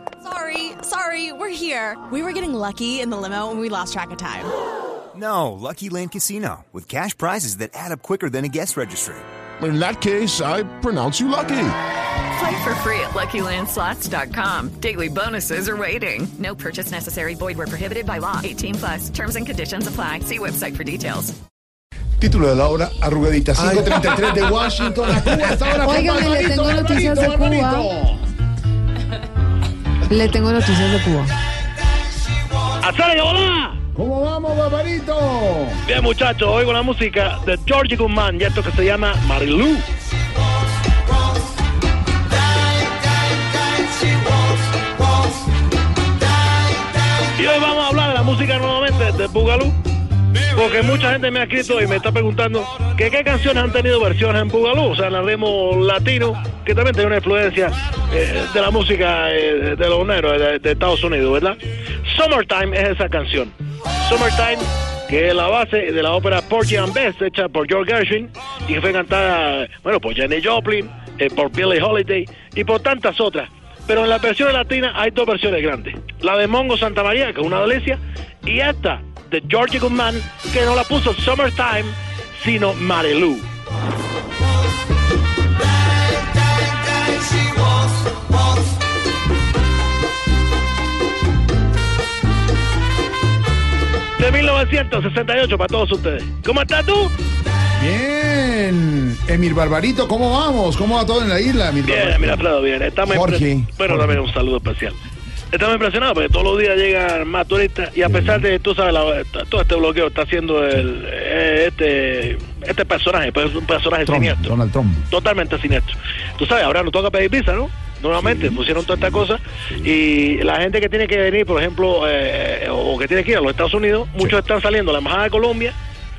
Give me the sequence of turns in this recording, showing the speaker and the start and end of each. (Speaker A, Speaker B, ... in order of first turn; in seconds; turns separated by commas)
Speaker A: 0.2-4.5, Speaker B: 5.1-9.2, Speaker C: 9.6-11.8, Speaker D: 12.3-21.4, Speaker E: 22.2-28.3, Speaker F: 25.8-27.9, Speaker F: 30.1-31.3, Speaker G: 32.8-33.8, Speaker E: 33.9-35.8, Speaker G: 35.9-39.9, Speaker G: 47.4-49.8, Speaker G: 50.5-83.5, Speaker G: 94.2-97.1, Speaker E: 97.8-102.5, Speaker G: 101.8-105.0, Speaker E: 103.0-104.2, Speaker G: 105.5-114.6, Speaker E: 108.0-108.5, Speaker E: 114.1-115.1, Speaker G: 115.1-125.8, Speaker E: 118.2-119.9